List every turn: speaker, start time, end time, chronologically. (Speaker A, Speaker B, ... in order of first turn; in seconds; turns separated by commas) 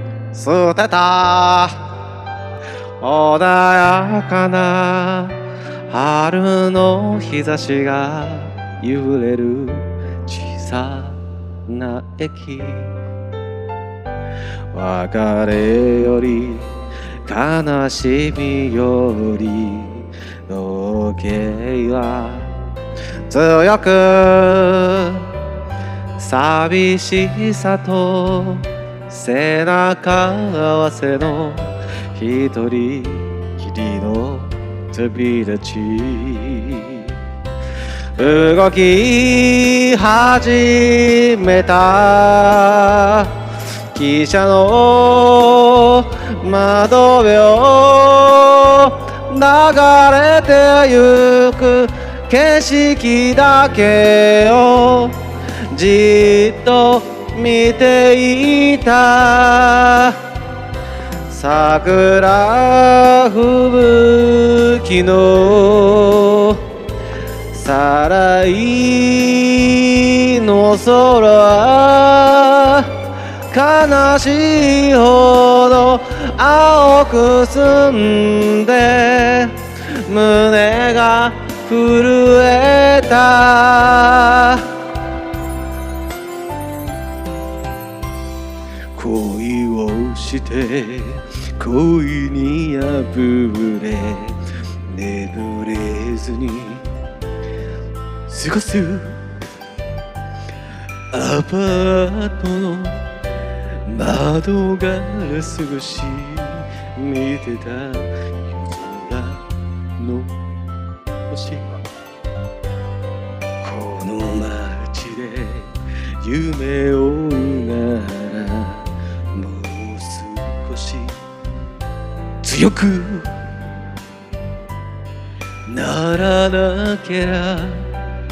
Speaker A: 0.3-1.9, Speaker A: 3.0-12.9, Speaker A: 14.7-16.7, Speaker A: 17.2-22.5, Speaker A: 23.3-25.3, Speaker A: 26.2-37.1, Speaker A: 38.2-43.3, Speaker A: 43.9-60.2, Speaker A: 61.3-66.7, Speaker A: 67.5-84.7, Speaker A: 88.9-96.9, Speaker A: 98.3-99.2, Speaker A: 101.1-103.0, Speaker A: 103.9-109.4, Speaker A: 110.0-110.3, Speaker A: 111.3-111.8, Speaker A: 113.6-121.2, Speaker A: 122.4-123.3, Speaker A: 125.7-127.9